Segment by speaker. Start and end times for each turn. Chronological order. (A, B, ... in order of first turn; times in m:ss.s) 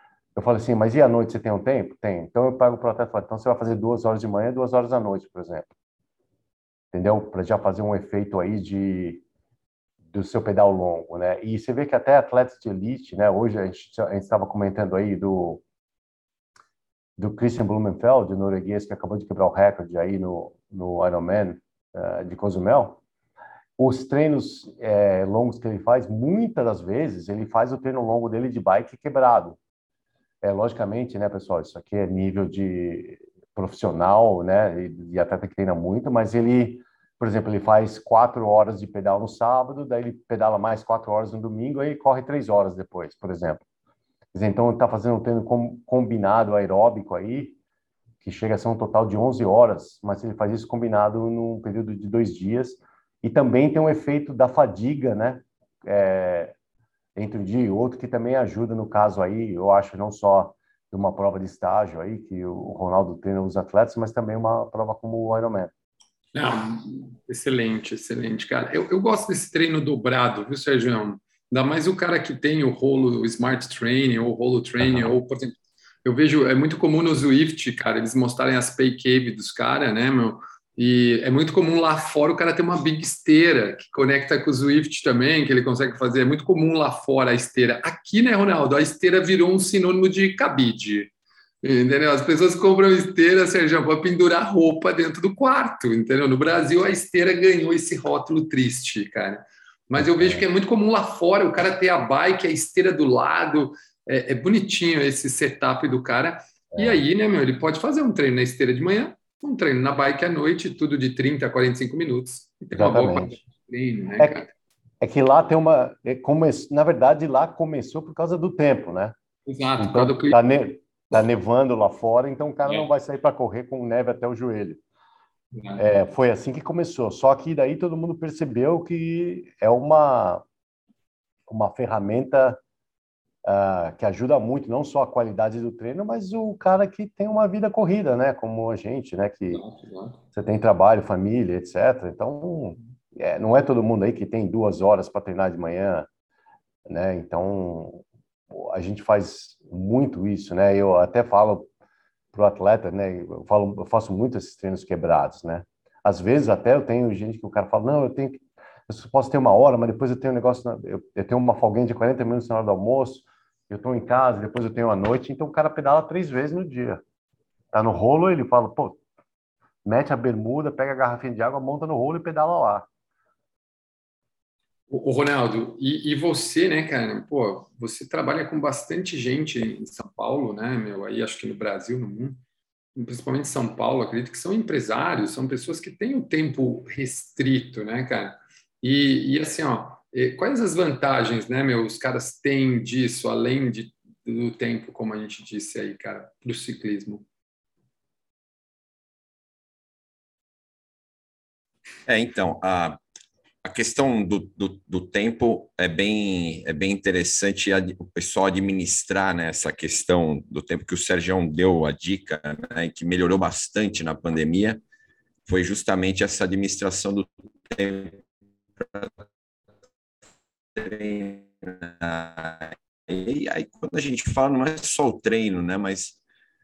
0:00.3-0:05.7 A
0:06.9-0:09.2 A
0:10.1-0:15.6 A
0:17.2-0:23.0 A
0:23.8-0:29.6 A
0:30.4-0:43.6 A
0:44.3-0:47.6 A
0:48.2-0:56.5 A
0:57.1-1:05.7 A
1:06.3-1:31.1 B
1:31.6-1:54.5 B
1:40.0-1:40.4 A
1:46.7-1:47.0 A
1:52.7-1:53.4 A
1:55.0-1:59.2 A
1:59.5-2:00.4 B
1:59.8-2:04.8 A
2:05.5-2:05.8 B
2:05.8-2:10.4 A
2:11.5-2:12.6 A
2:13.4-2:19.6 A
2:19.5-2:20.2 B
2:20.3-2:26.1 A
2:26.8-2:31.7 A
2:32.3-2:47.0 A
2:47.7-2:49.0 A
2:49.8-2:52.9 A
2:54.9-3:02.4 B
3:03.0-3:17.2 B
3:22.1-3:23.0 C
3:23.6-3:34.8 C
3:35.4-3:38.2 C
3:38.8-3:39.1 C
3:40.7-3:46.2 C